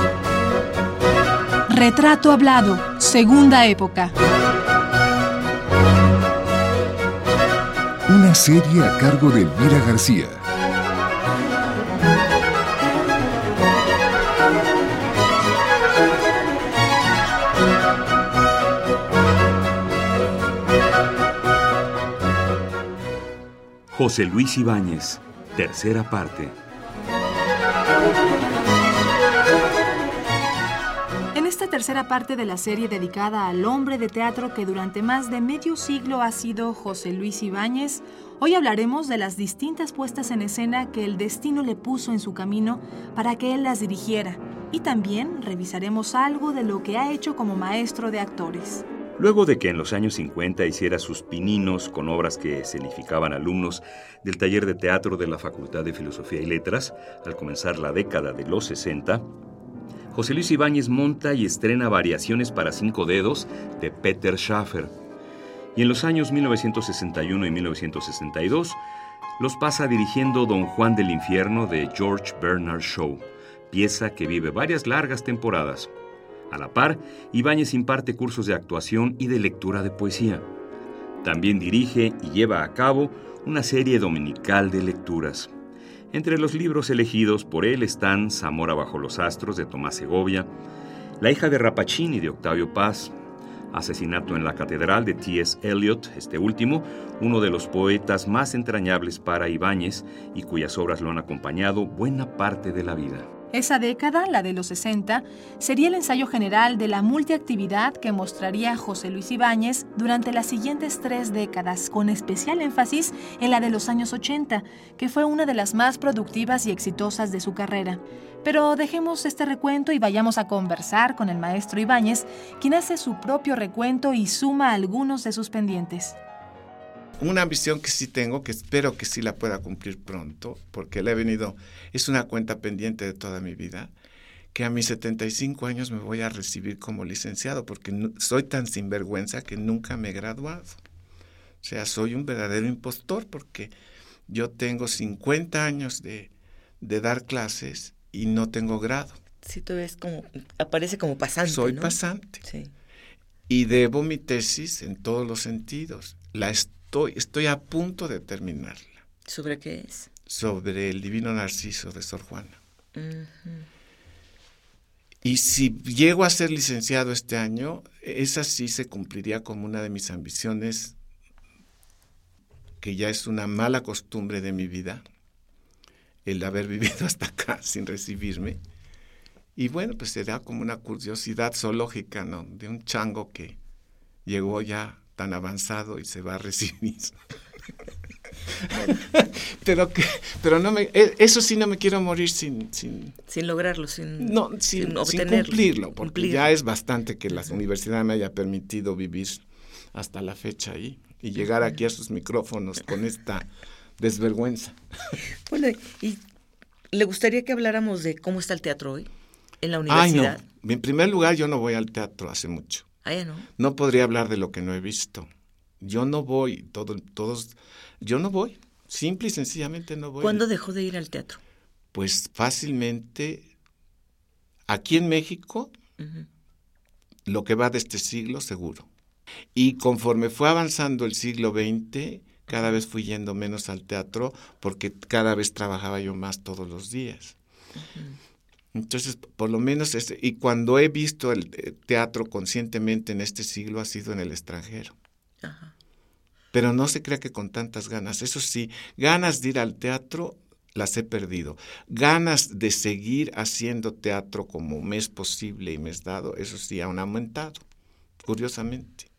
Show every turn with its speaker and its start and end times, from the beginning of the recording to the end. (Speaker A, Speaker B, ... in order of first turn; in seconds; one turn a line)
Speaker A: 1.7-4.1
Speaker B: 8.1-10.4
Speaker C: 23.9-26.5
Speaker A: 31.3-48.8
Speaker C: 49.2-59.2
Speaker C: 60.1-64.9
Speaker C: 65.7-68.8
Speaker C: 69.4-75.9
Speaker C: 76.5-80.5
Speaker C: 81.2-85.5
Speaker C: 86.1-90.5
Speaker C: 91.2-93.1
Speaker C: 93.7-103.3
Speaker A: 103.5-126.2
Speaker D: 127.2-133.9
Speaker D: 134.5-140.8
Speaker D: 141.6-143.7
Speaker D: 144.3-149.2
Speaker E: 149.4-152.7
Speaker D: 151.4-152.4
Speaker D: 153.5-159.0
Speaker E: 159.2-160.1
Speaker D: 160.3-162.6
Speaker E: 162.9-163.7
Speaker D: 165.2-170.9
Speaker D: 172.8-175.0
Speaker D: 176.2-178.6
Speaker D: 179.5-183.6
Speaker D: 184.2-187.2
Speaker D: 188.5-193.2
Speaker E: 193.3-196.5
Speaker D: 194.2-205.2
Speaker E: 205.4-206.2
Speaker E: 206.9-209.1
Speaker E: 209.6-210.4
Speaker D: 209.9-212.9
Speaker E: 213.0-213.5
Speaker D: 213.6-215.3
Speaker D: 215.8-220.4
Speaker E: 220.2-221.4
Speaker D: 221.9-223.5
Speaker D: 224.7-225.7
Speaker E: 226.0-226.2
Speaker D: 227.3-228.9
Speaker D: 229.5-237.3
Speaker E: 237.8-238.2
Speaker D: 238.7-244.9
Speaker E: 245.4-245.7
Speaker D: 246.5-257.6
Speaker D: 258.2-259.1